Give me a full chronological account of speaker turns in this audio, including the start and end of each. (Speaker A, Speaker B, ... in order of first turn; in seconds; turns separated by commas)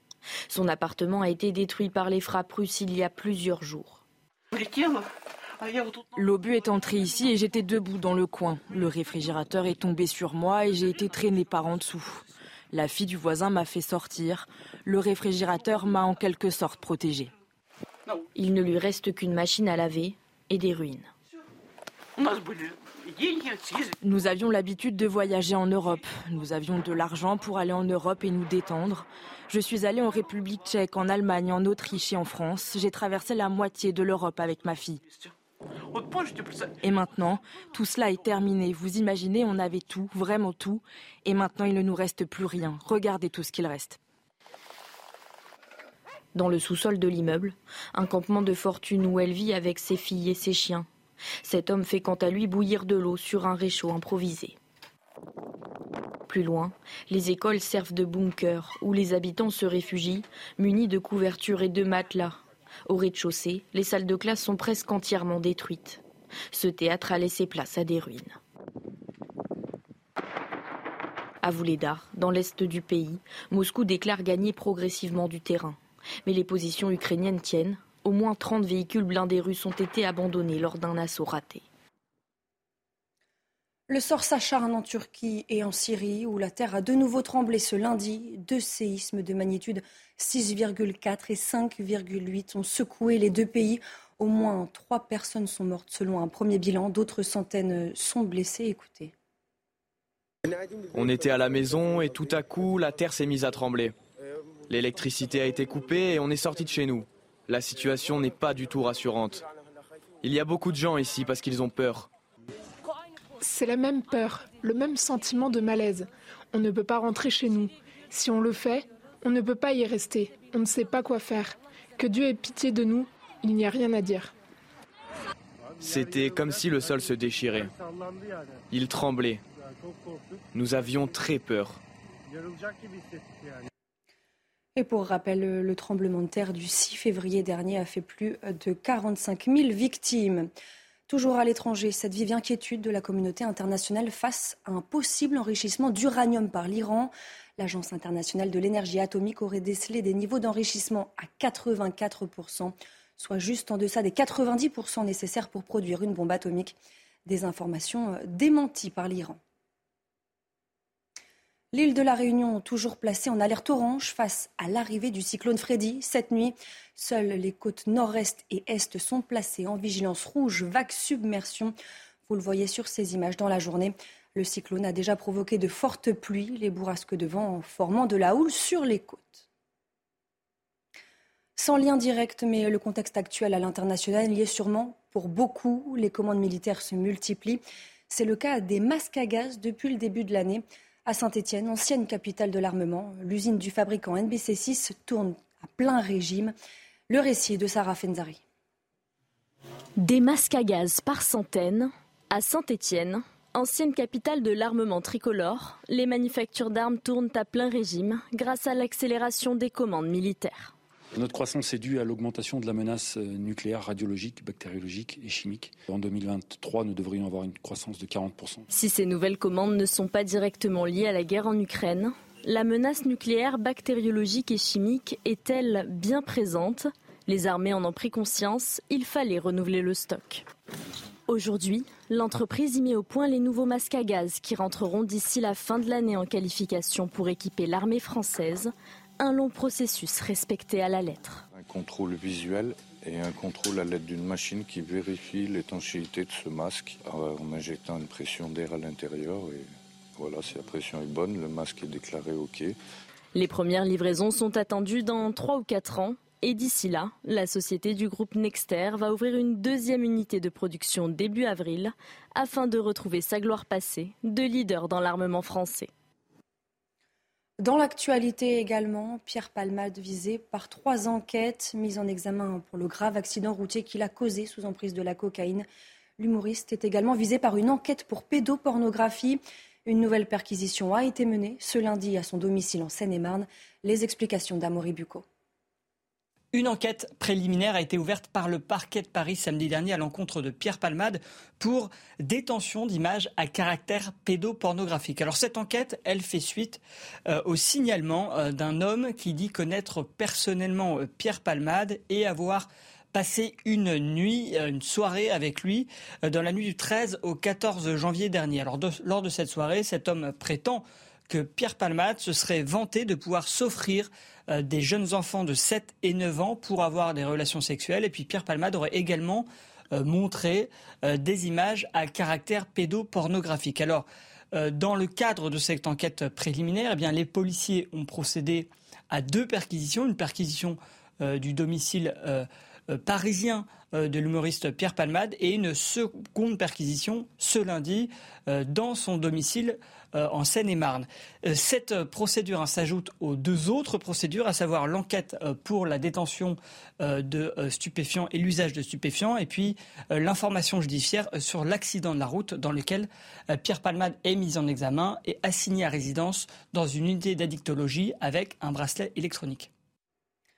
Speaker A: 0.5-4.0, Speaker B: 6.2-12.2, Speaker B: 12.7-17.3, Speaker A: 18.4-21.1, Speaker B: 24.0-35.0, Speaker B: 36.8-44.0, Speaker A: 46.4-50.9, Speaker A: 51.4-54.6, Speaker A: 56.3-66.0, Speaker A: 66.5-68.4, Speaker A: 71.4-81.6, Speaker C: 83.9-99.1, Speaker D: 101.0-103.9, Speaker D: 104.7-109.4, Speaker D: 110.2-112.1, Speaker E: 113.4-124.3, Speaker D: 125.8-127.7, Speaker D: 128.7-129.4, Speaker D: 130.6-131.8, Speaker C: 134.8-140.5, Speaker C: 141.1-156.8, Speaker C: 157.3-159.4, Speaker C: 161.7-171.7, Speaker C: 172.3-179.5, Speaker C: 181.6-196.5, Speaker C: 197.1-198.4, Speaker F: 200.0-210.7, Speaker G: 211.2-218.6, Speaker F: 218.7-230.4, Speaker F: 231.3-241.4, Speaker H: 241.5-252.8, Speaker F: 253.3-265.9, Speaker C: 267.6-275.7, Speaker C: 276.2-285.2, Speaker I: 286.5-359.7